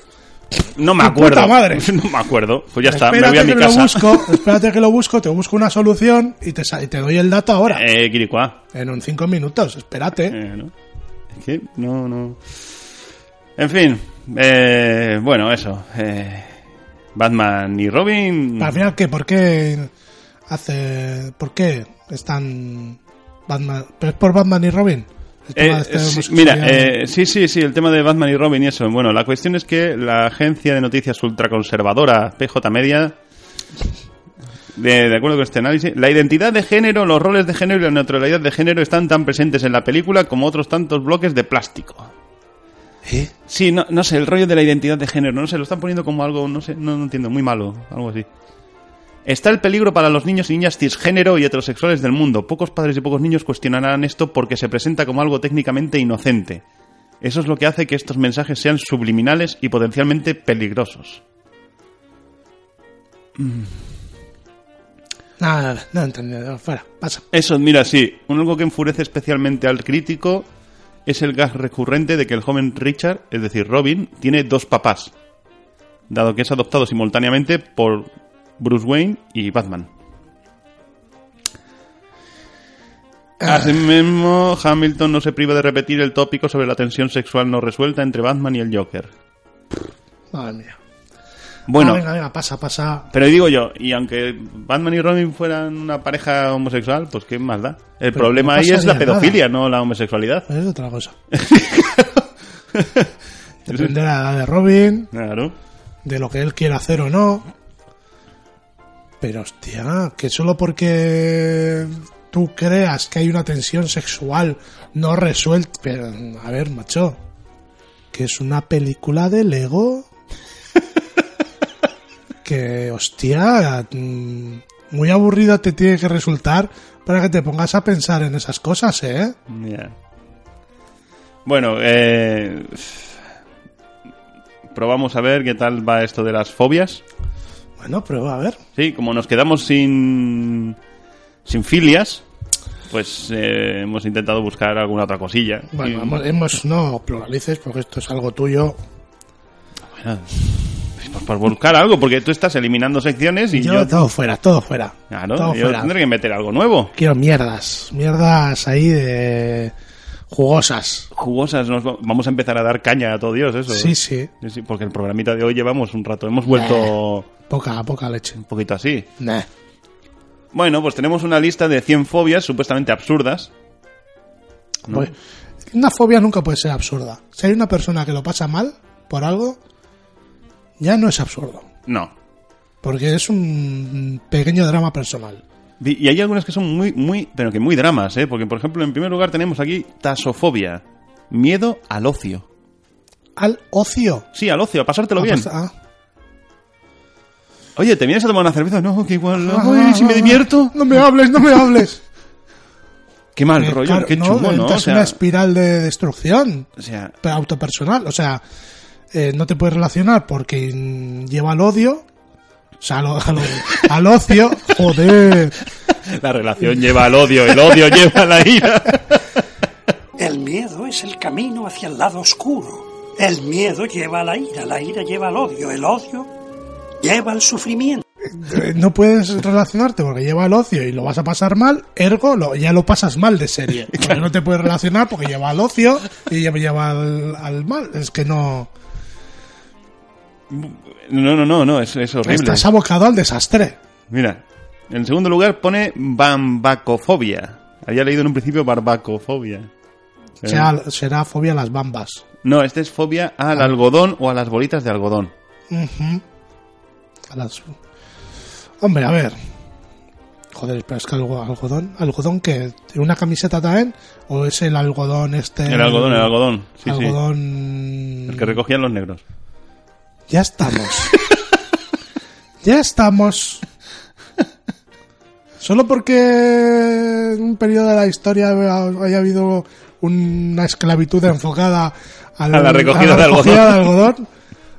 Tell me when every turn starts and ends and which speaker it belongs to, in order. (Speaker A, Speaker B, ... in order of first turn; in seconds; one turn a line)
Speaker A: 0.8-4.4
Speaker B: 1.0-1.9
Speaker B: 2.9-7.9
Speaker A: 7.7-8.6
Speaker B: 8.7-10.4
Speaker A: 10.3-10.7
Speaker A: 11.3-12.4
Speaker A: 13.6-16.6
Speaker A: 17.1-18.7
Speaker B: 18.6-19.9
Speaker B: 20.5-26.9
Speaker A: 25.6-33.2
Speaker A: 34.7-42.1
Speaker B: 43.0-43.3
Speaker A: 43.5-48.3
Speaker A: 49.2-56.6
Speaker A: 57.2-61.2
Speaker A: 63.4-63.7
Speaker B: 65.4-67.2
Speaker A: 67.3-70.5
Speaker A: 71.1-75.1
Speaker A: 76.1-79.9
Speaker B: 83.4-83.8
Speaker A: 83.4-89.1
Speaker B: 90.3-90.8
Speaker A: 91.7-92.0
Speaker B: 91.8-93.1
Speaker A: 93.1-100.5
Speaker B: 98.1-99.4
Speaker B: 100.5-101.2
Speaker A: 101.3-103.1
Speaker B: 103.7-105.1
Speaker A: 103.7-103.9
Speaker A: 105.1-105.5
Speaker B: 106.0-107.5
Speaker B: 109.2-117.2
Speaker B: 118.1-120.1
Speaker B: 122.4-129.4
Speaker A: 129.5-129.9
Speaker A: 131.5-133.1
Speaker A: 134.7-137.0
Speaker B: 137.8-138.6
Speaker A: 138.8-140.8
Speaker A: 141.4-142.2
Speaker A: 142.9-146.2
Speaker B: 145.7-148.8
Speaker A: 149.9-154.1
Speaker B: 153.5-155.9
Speaker A: 155.1-156.9
Speaker B: 156.9-159.7
Speaker B: 160.3-161.1
Speaker A: 161.1-167.3
Speaker B: 163.7-164.3
Speaker B: 166.5-166.9
Speaker B: 167.5-168.4
Speaker A: 168.4-169.1
Speaker B: 169.2-169.5
Speaker A: 170.5-173.5
Speaker B: 175.7-179.6
Speaker B: 180.8-181.7
Speaker A: 181.9-182.1
Speaker B: 182.8-185.4
Speaker A: 185.8-192.5
Speaker B: 193.4-194.3
Speaker A: 194.3-195.5
Speaker B: 195.2-195.7
Speaker A: 197.8-200.8
Speaker B: 199.4-202.0
Speaker A: 203.3-205.2
Speaker B: 203.6-206.7
Speaker A: 206.8-207.1
Speaker B: 207.2-208.4
Speaker B: 209.1-212.1
Speaker B: 212.8-215.6
Speaker A: 216.1-219.3
Speaker C: 220.2-226.3
Speaker C: 227.0-228.0
Speaker B: 228.2-238.7
Speaker A: 233.9-234.2
Speaker A: 240.5-242.7
Speaker B: 242.2-243.8
Speaker A: 244.1-249.7
Speaker A: 250.4-250.7
Speaker B: 250.4-252.2
Speaker A: 252.4-255.3
Speaker B: 255.7-256.2
Speaker B: 257.3-257.8
Speaker B: 258.8-259.4
Speaker B: 260.5-268.6
Speaker A: 265.7-267.2
Speaker A: 268.3-269.2
Speaker B: 270.3-271.2
Speaker B: 272.6-273.6
Speaker B: 275.6-284.3
Speaker A: 282.5-283.9